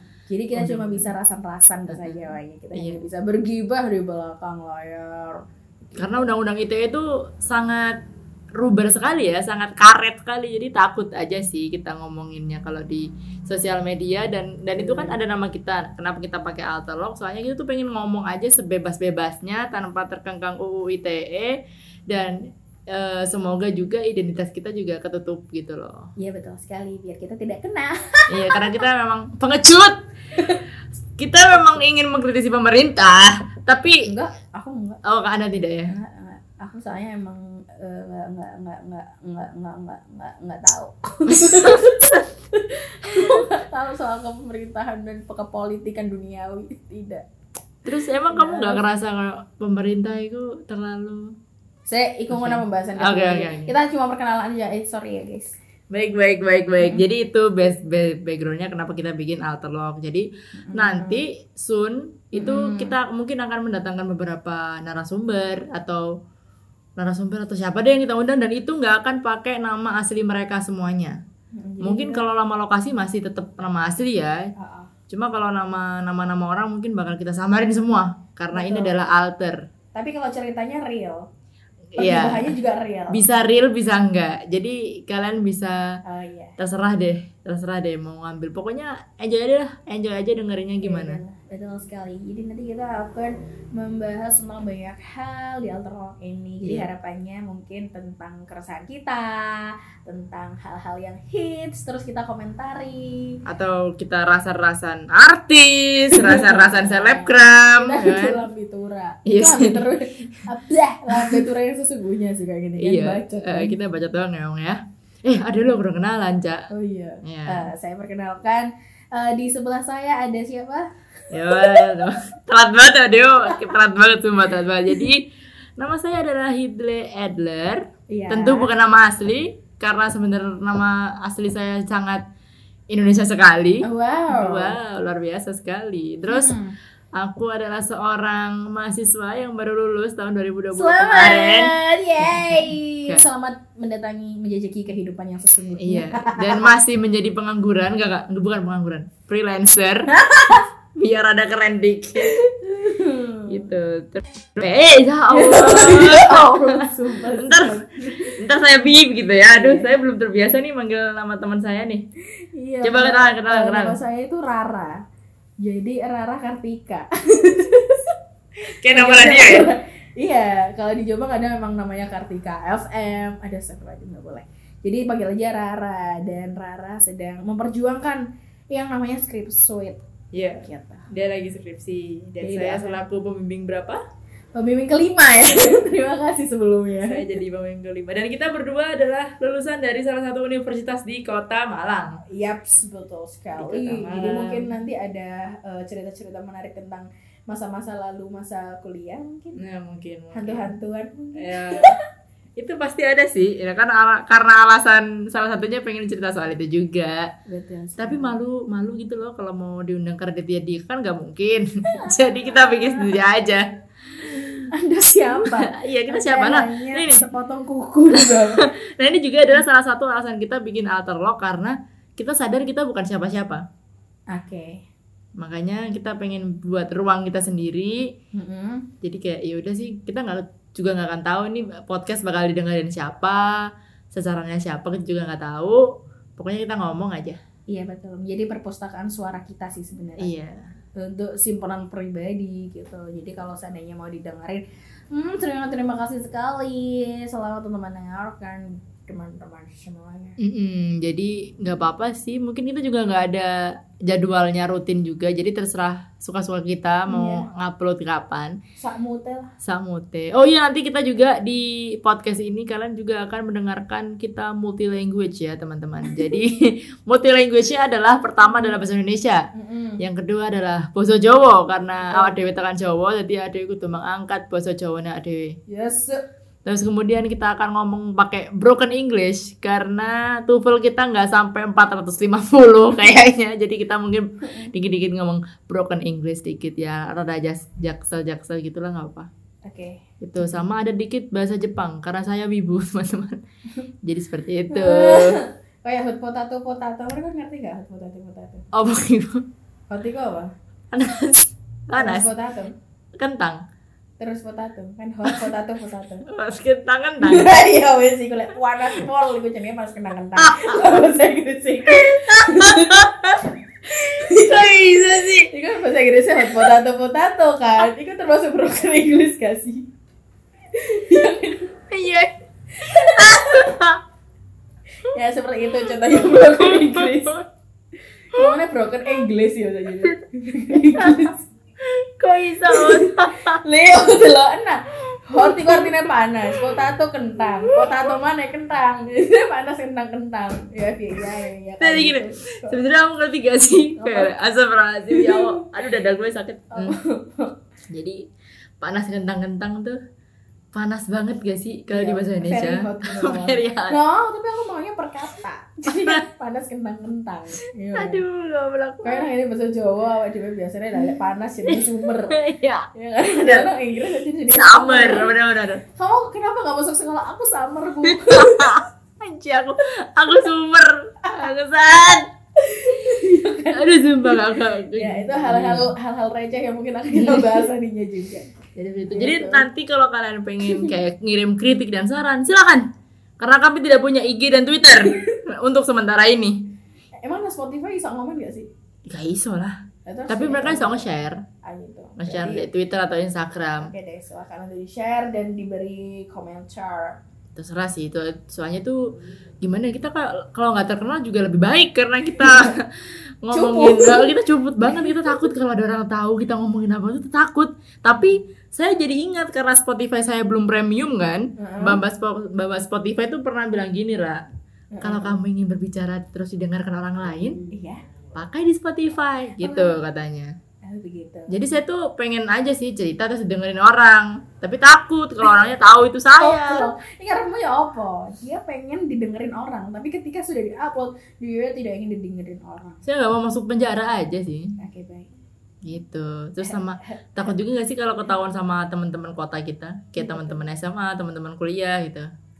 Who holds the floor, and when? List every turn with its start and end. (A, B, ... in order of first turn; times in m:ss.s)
0:00.3-0:05.4 A
0:00.5-0:01.1 B
0:01.9-0:03.0 B
0:06.0-0:06.2 A
0:06.0-0:08.0 B
0:08.6-0:21.6 B
0:14.7-0:15.2 A
0:22.1-0:22.4 B
0:22.9-0:26.0 B
0:26.2-0:28.8 A
0:28.3-0:30.0 B
0:31.2-0:34.0 B
0:34.1-0:35.0 A
0:35.0-0:35.9 B
0:35.9-0:47.2 A
0:41.3-0:42.2 B
0:47.8-0:51.3 B
0:48.3-0:48.9 A
0:51.9-0:55.6 A
0:52.3-0:53.7 B
0:55.9-1:06.1 B
0:56.8-0:57.0 A
1:00.6-1:01.2 A
1:02.4-1:03.0 A
1:07.0-1:11.2 B
1:11.6-1:12.2 A
1:11.8-1:14.4 B
1:14.6-1:14.9 A
1:15.1-1:19.6 B
1:18.5-1:19.0 A
1:20.0-1:21.3 A
1:22.0-1:22.6 B
1:22.0-1:23.2 A
1:23.1-1:25.8 B
1:26.0-1:26.6 A
1:26.6-1:31.2 B
1:30.8-1:43.4 A
1:36.6-1:36.9 B
1:43.5-1:48.4 B
1:46.1-1:53.8 A
1:49.3-1:50.4 B
1:51.1-1:51.4 B
1:52.8-1:56.7 B
1:56.7-2:00.8 A
1:57.2-1:57.7 B
2:01.3-2:05.2 B
2:01.5-2:02.0 A
2:05.8-2:12.2 B
2:08.1-2:08.7 A
2:12.9-2:16.6 B
2:13.8-2:14.7 A
2:16.3-2:16.8 A
2:17.2-2:23.2 B
2:20.7-2:26.7 A
2:25.8-2:32.4 B
2:30.2-2:30.6 A
2:32.2-2:33.7 A
2:33.5-2:42.0 B
2:35.3-2:38.4 A
2:39.5-2:39.9 A
2:42.5-2:45.0 A
2:42.8-2:44.0 B
2:45.6-2:48.1 A
2:48.8-2:49.7 B
2:48.9-3:00.0 A
3:00.3-3:04.0 B
3:00.6-3:01.1 A
3:02.4-3:03.0 A
3:04.6-3:07.2 A
3:07.0-3:12.2 B
3:12.3-3:19.6 A
3:13.6-3:14.7 B
3:19.6-3:20.7 B
3:20.3-3:22.0 A
3:21.4-3:21.9 B
3:22.6-3:27.3 B
3:27.5-3:28.4 A
3:28.0-3:33.7 B
3:32.0-3:33.2 A
3:34.2-3:34.7 B
3:34.7-3:38.6 A
3:35.4-3:37.2 B
3:38.2-3:43.6 B
3:44.3-3:44.8 A
3:45.4-3:48.0 B
3:48.4-3:48.9 A
3:49.0-3:53.6 B
3:54.1-3:55.8 B
3:56.4-3:57.4 B
3:57.7-4:00.3 A
4:00.2-4:00.6 B
4:01.0-4:10.4 A
4:10.4-4:13.5 B
4:14.0-4:18.6 B
4:17.1-4:17.4 A
4:18.8-4:19.5 A
4:19.6-4:29.5 B
4:28.4-4:28.8 A
4:29.6-4:30.0 A
4:30.0-4:35.5 B
4:32.1-4:32.4 A
4:35.7-4:36.2 A
4:36.6-4:49.3 B
4:44.4-4:44.7 A
4:49.6-4:50.0 A
4:50.2-4:53.4 B
4:54.0-4:55.4 B
4:54.7-4:58.7 A
4:58.7-4:59.4 B
4:59.9-5:00.5 A
5:00.9-5:02.3 B
5:02.0-5:02.7 A
5:03.2-5:03.6 B
5:04.2-5:06.2 A
5:06.3-5:07.5 B
5:07.2-5:13.1 A
5:10.4-5:10.8 B
5:11.9-5:13.4 B
5:13.9-5:15.5 B
5:14.3-5:14.6 A
5:15.5-5:19.9 A
5:20.8-5:21.7 A
5:21.9-5:22.3 B
5:22.8-5:24.0 B
5:22.8-5:23.7 A
5:25.1-5:27.4 A
5:25.7-5:27.4 B
5:28.3-5:31.4 A
5:30.9-5:31.3 B
5:31.9-5:33.6 B
5:32.7-5:42.8 A
5:35.4-5:35.9 B
5:41.8-5:47.0 B
5:44.0-5:44.3 A
5:45.1-5:45.6 A
5:46.8-5:47.5 A
5:47.9-5:48.2 B
5:48.8-5:50.0 B
5:50.7-5:54.0 B
5:51.9-5:58.2 A
5:55.9-5:56.2 B
5:57.9-5:59.3 B
5:59.0-6:02.4 A
6:01.7-6:03.7 B
6:03.0-6:05.4 A
6:04.5-6:05.8 B
6:06.0-6:08.8 A
6:08.1-6:12.2 B
6:12.6-6:19.7 A
6:13.8-6:15.9 B
6:18.8-6:22.8 B
6:20.6-6:20.9 A
6:23.4-6:26.6 B
6:27.2-6:28.7 A
6:29.1-6:29.8 B
6:30.1-6:31.1 A
6:30.3-6:31.4 B
6:31.6-6:32.7 A
6:32.2-6:33.9 B
6:33.8-6:37.2 A
6:37.6-6:39.0 B
6:39.6-6:54.4 B
6:42.4-6:42.7 A
6:43.5-6:45.3 A
6:51.6-6:52.0 A
6:54.9-6:55.4 A
6:55.0-6:57.6 B
6:57.6-6:58.0 A
6:58.4-7:00.5 B
6:59.6-7:00.0 A
7:00.9-7:01.6 A
7:01.5-7:06.9 B
7:06.4-7:13.0 A
7:13.0-7:14.8 B
7:14.8-7:15.3 A
7:15.8-7:22.3 B
7:16.6-7:17.6 A
7:20.2-7:20.7 A